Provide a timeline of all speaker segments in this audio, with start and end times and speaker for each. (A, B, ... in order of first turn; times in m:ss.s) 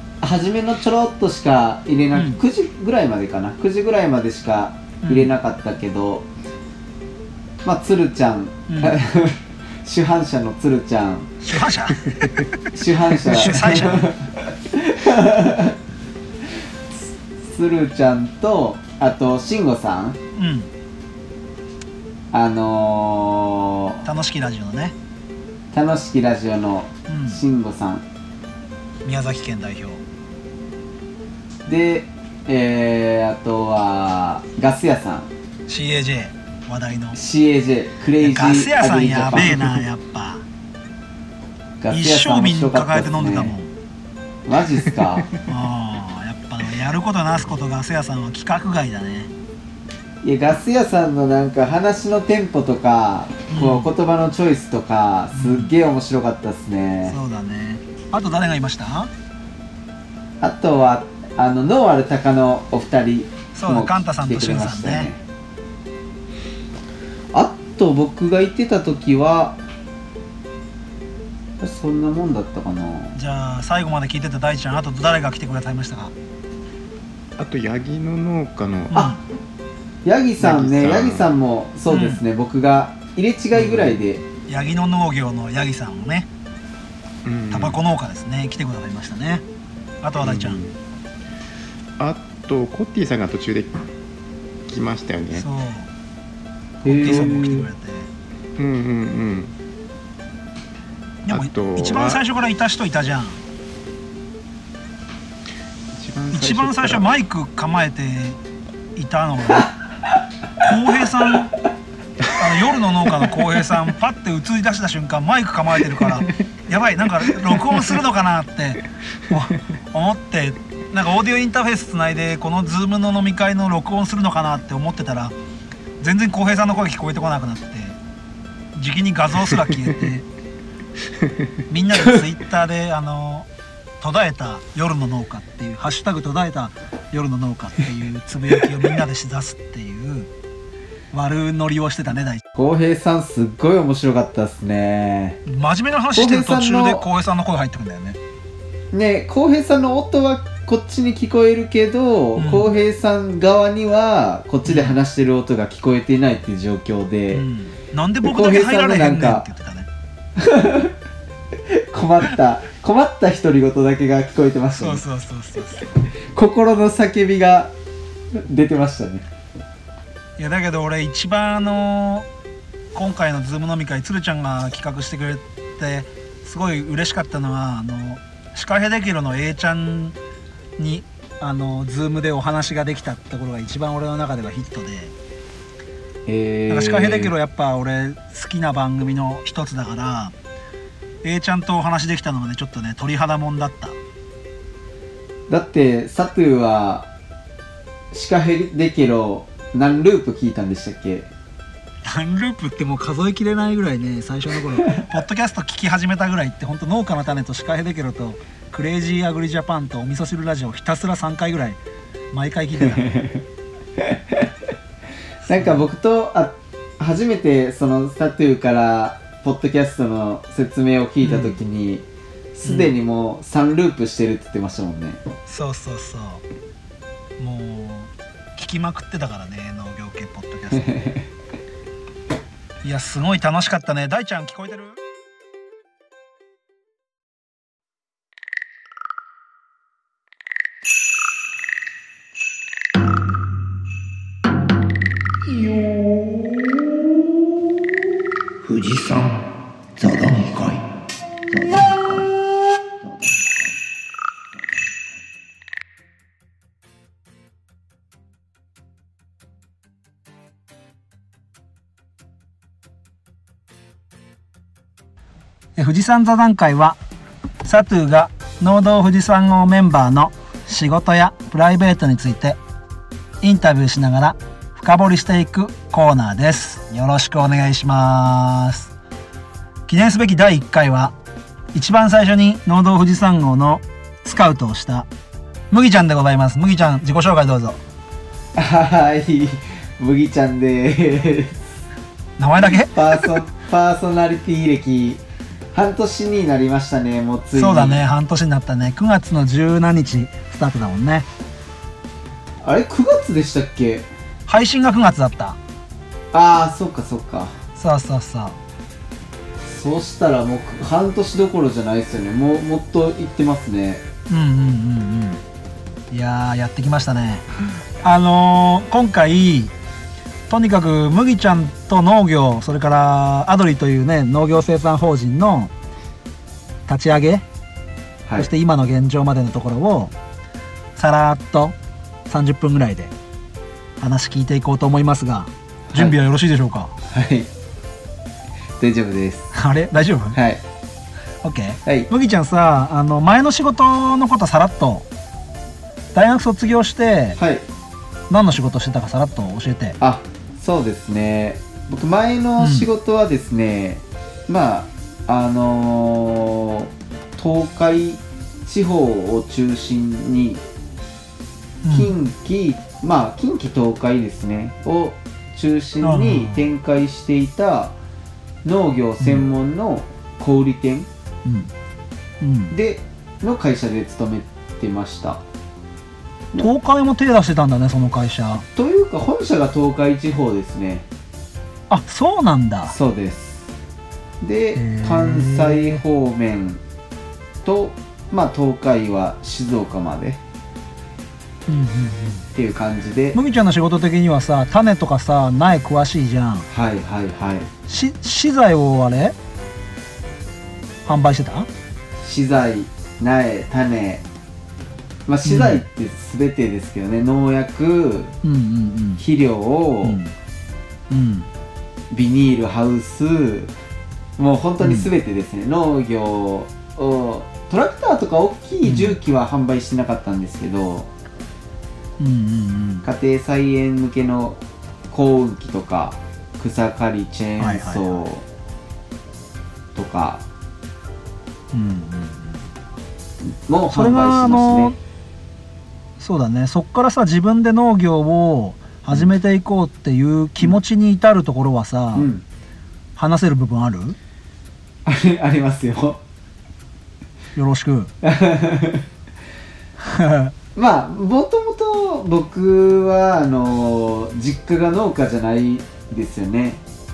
0:00.2-0:06.2 A
0:02.1-0:02.4 B
0:05.0-0:05.3 B
0:07.6-0:11.4 A
0:08.7-0:08.9 B
0:11.4-0:12.6 B
0:12.7-0:15.8 A
0:13.3-0:14.1 B
0:16.9-0:20.2 A
0:20.4-0:20.7 B
0:22.3-0:24.0 A
0:24.0-0:24.9 B
0:25.7-0:28.0 A
0:27.1-0:27.4 B
0:29.0-0:30.0 B
0:31.6-0:35.3 A
0:35.7-0:37.2 B
0:37.1-0:39.8 A
0:38.2-0:40.4 B
0:41.8-0:43.5 A
0:41.9-0:43.7 B
0:44.5-0:45.3 A
0:45.4-0:49.3 B
0:50.2-0:57.1 A
0:53.5-0:53.9 B
0:55.3-0:55.7 B
0:57.1-0:59.1 B
1:00.4-1:05.2 A
1:03.5-1:05.1 B
1:07.3-1:09.6 A
1:11.6-1:13.1 A
1:13.1-1:16.1 B
1:17.4-1:19.0 C
1:18.9-1:19.2 B
1:20.0-1:24.2 A
1:20.4-1:21.3 C
1:21.9-1:22.2 B
1:23.6-1:24.0 C
1:24.5-1:26.3 B
1:27.2-1:27.8 C
1:27.5-1:29.4 B
1:30.0-1:30.6 B
1:30.2-1:30.7 C
1:32.0-1:33.8 C
1:34.6-1:35.5 C
1:35.3-1:35.9 B
1:36.8-1:38.1 B
1:36.8-1:37.6 A
1:38.6-1:39.5 C
1:41.2-1:43.4 B
1:41.3-1:42.2 C
1:45.9-1:47.1 C
1:46.3-1:48.4 B
1:49.0-1:49.7 B
1:50.6-1:51.5 B
1:52.3-2:05.3 B
2:06.0-2:08.0 B
2:08.7-2:10.2 B
2:11.7-2:13.5 B
2:14.0-2:20.3 B
2:21.1-2:22.4 B
2:22.5-2:25.4 A
2:25.4-2:28.2 B
2:26.2-2:27.0 A
2:28.9-2:37.4 A
2:32.4-2:32.7 B
2:34.6-2:35.0 B
2:37.3-2:39.9 B
2:38.2-2:39.4 A
2:40.4-2:40.9 A
2:41.7-2:45.0 A
2:44.8-2:45.8 B
2:46.3-2:47.7 A
2:48.5-2:49.2 A
2:50.4-2:52.2 B
2:52.9-3:00.1 B
3:00.8-3:05.1 B
3:06.3-3:07.3 A
3:06.7-3:10.3 B
3:11.2-3:14.0 B
3:15.5-3:17.1 A
3:18.1-3:21.3 A
3:22.0-3:31.8 B
3:32.3-3:33.2 B
3:32.9-3:33.4 A
3:35.5-3:35.8 B
3:35.5-3:45.2 A
3:41.2-3:41.5 B
3:42.6-3:42.9 B
3:45.5-3:46.4 B
3:47.4-3:50.9 B
3:50.8-3:51.2 A
3:52.8-3:55.0 B
4:05.6-4:06.2 D
4:08.6-4:09.4 D
4:10.0-4:10.8 D
4:11.5-4:12.2 D
4:25.8-4:27.0 B
4:27.6-4:32.6 B
4:33.4-4:38.9 B
4:39.9-4:41.1 B
4:41.7-4:45.1 B
4:45.7-4:47.8 B
4:48.6-4:51.6 A
4:52.4-4:53.4 B
4:52.6-4:55.2 A
4:55.7-4:58.0 A
4:57.6-5:01.3 B
5:02.6-5:04.0 A
5:04.5-5:05.6 B
5:06.3-5:07.5 A
5:07.8-5:08.6 B
5:09.7-5:14.0 A
5:14.3-5:15.4 B
5:16.1-5:17.4 B
5:18.0-5:19.7 B
5:20.5-5:25.7 B
5:26.9-5:27.4 B
5:28.4-5:30.1 B
5:31.0-5:31.7 B
5:32.3-5:33.1 B
5:34.0-5:36.9 B
5:35.9-5:36.1 A
5:37.1-5:37.5 A
5:38.8-5:39.5 A
5:39.5-5:40.4 B
5:40.3-5:40.6 A
5:41.4-5:45.0 B
5:46.1-5:47.4 B
5:47.4-5:47.6 A
5:48.3-5:50.0 B
5:50.0-6:00.6 A
5:52.6-5:52.9 B
6:01.8-6:02.1 B
6:01.9-6:07.9 A
6:06.0-6:06.6 B
6:08.6-6:11.1 A
6:11.4-6:11.7 B
6:12.4-6:12.7 B
6:12.7-6:15.4 A
6:16.6-6:18.6 B
6:18.7-6:21.0 A
6:21.9-6:22.9 B
6:22.9-6:23.7 A
6:24.4-6:26.8 A
6:24.7-6:26.0 B
6:27.6-6:30.4 A
6:31.7-6:32.4 B
6:32.5-6:33.4 A
6:33.3-6:36.6 B
6:36.7-6:37.7 A
6:37.9-6:39.3 B
6:41.0-6:41.7 B
6:42.2-6:44.2 A
6:45.3-6:48.4 A
6:45.4-6:45.8 B
6:48.4-6:49.2 B
6:49.2-6:50.2 A
6:50.0-6:50.3 B
6:51.1-6:51.5 B
6:52.1-6:53.7 A
6:54.4-7:01.1 A
6:54.8-6:55.1 B
6:58.8-6:59.2 B
7:02.2-7:03.0 B
7:03.0-7:08.4 A
7:07.6-7:08.2 B
7:09.9-7:10.4 A
7:11.7-7:12.6 B
7:13.7-7:14.9 A
7:13.9-7:15.0 B
7:16.2-7:22.3 B
7:22.1-7:22.4 A
7:23.2-7:24.2 B
7:25.0-7:26.2 A
7:27.5-7:28.1 B
7:28.2-7:29.0 A
7:30.0-7:30.5 B
7:30.8-7:36.8 A